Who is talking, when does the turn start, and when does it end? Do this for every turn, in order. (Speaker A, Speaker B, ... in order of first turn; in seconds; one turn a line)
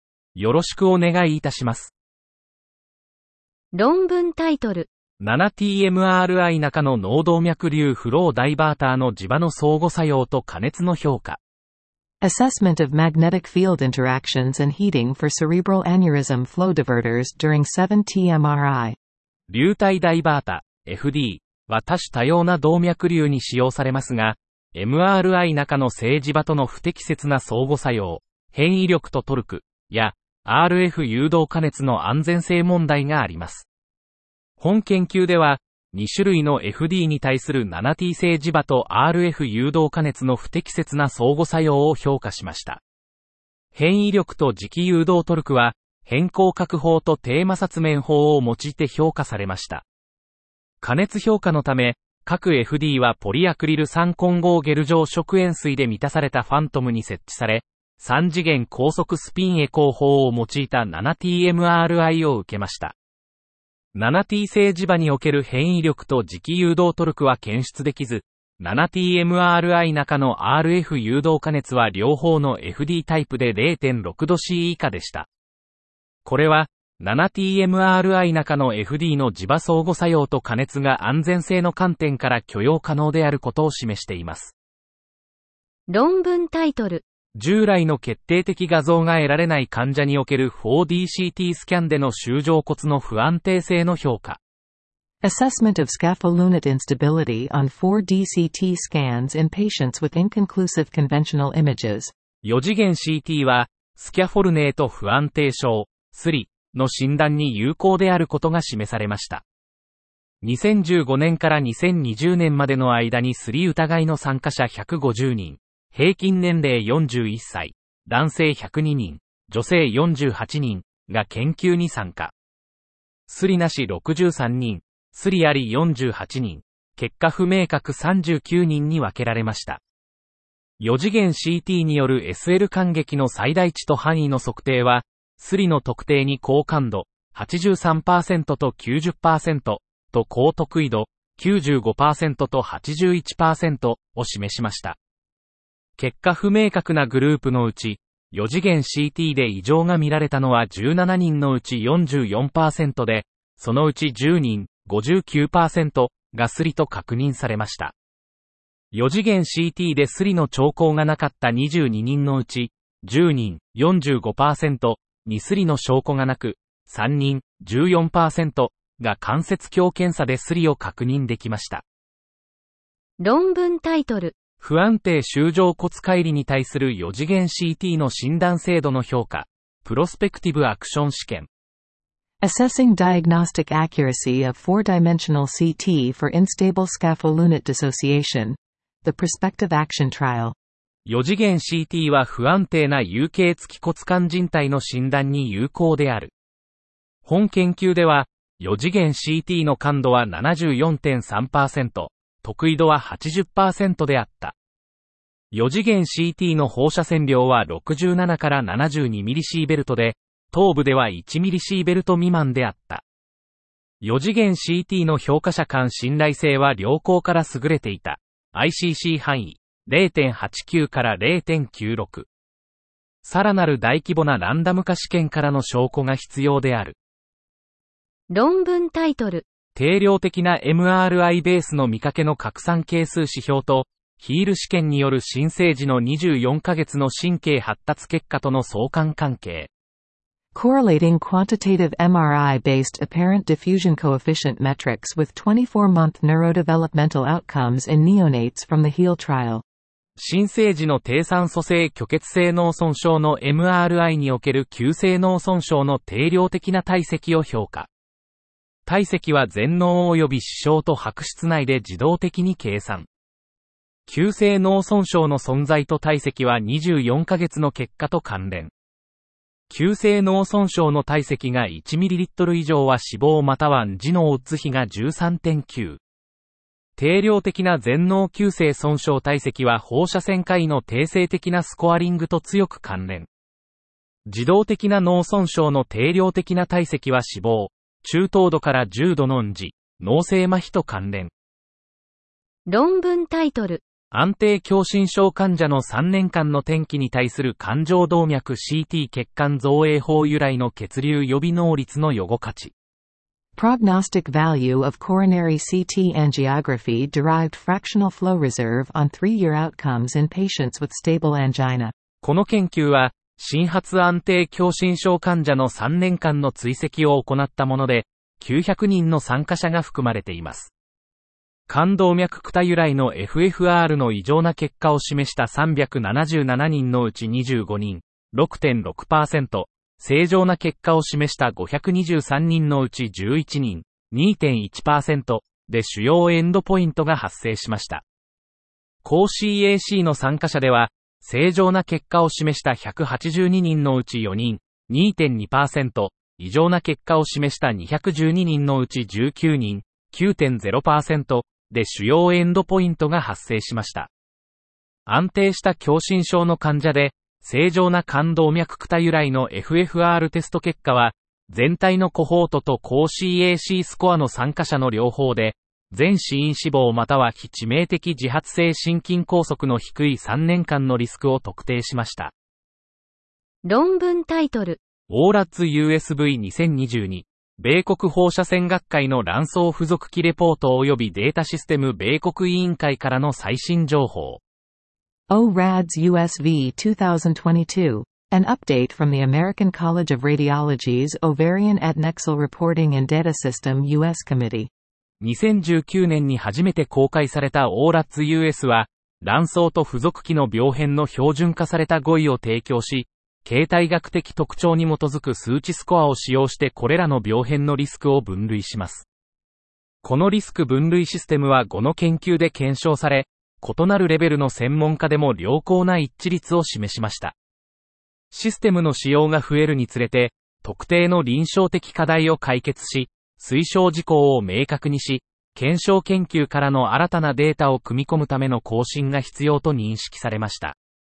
Speaker A: 0.4-1.9
Speaker B: 3.7-4.9
Speaker A: 5.2-11.4
Speaker C: 12.2-19.0
Speaker A: 19.5-33.7
Speaker A: 34.6-42.8
Speaker A: 43.8-49.9
Speaker A: 50.8-63.0
Speaker A: 64.0-75.3
Speaker A: 76.2-84.5
Speaker B: 85.9-87.0
Speaker A: 87.4-94.4
Speaker C: 95.2-102.1
Speaker A: 102.4-109.4
Speaker A: 110.4-122.3
Speaker A: 123.3-129.8
Speaker A: 130.8-145.0
Speaker A: 146.0-157.9
Speaker A: 158.9-171.8
Speaker B: 173.2-174.3
Speaker A: 174.6-181.5
Speaker C: 182.4-190.6
Speaker A: 191.1-196.3
Speaker A: 197.2-204.6
Speaker A: 205.5-213.0
Speaker A: 214.0-222.3
Speaker A: 223.2-227.0
Speaker B: 228.3-229.4
Speaker A: 229.8-239.7
Speaker C: 240.6-249.6
Speaker A: 250.2-257.9
Speaker A: 258.9-263.1
Speaker A: 264.1-268.7
Speaker A: 269.7-276.0
Speaker A: 277.0-283.3
Speaker A: 284.3-291.3
Speaker B: 292.7-293.8
Speaker A: 294.1-302.7
Speaker C: 303.6-311.9
Speaker A: 312.2-320.7
Speaker A: 321.7-338.0
Speaker A: 339.0-354.1
Speaker A: 355.1-372.3
Speaker B: 373.6-374.8
Speaker A: 375.1-384.4
Speaker C: 385.3-394.7
Speaker A: 395.2-409.1
Speaker A: 410.0-417.4
Speaker A: 418.3-430.8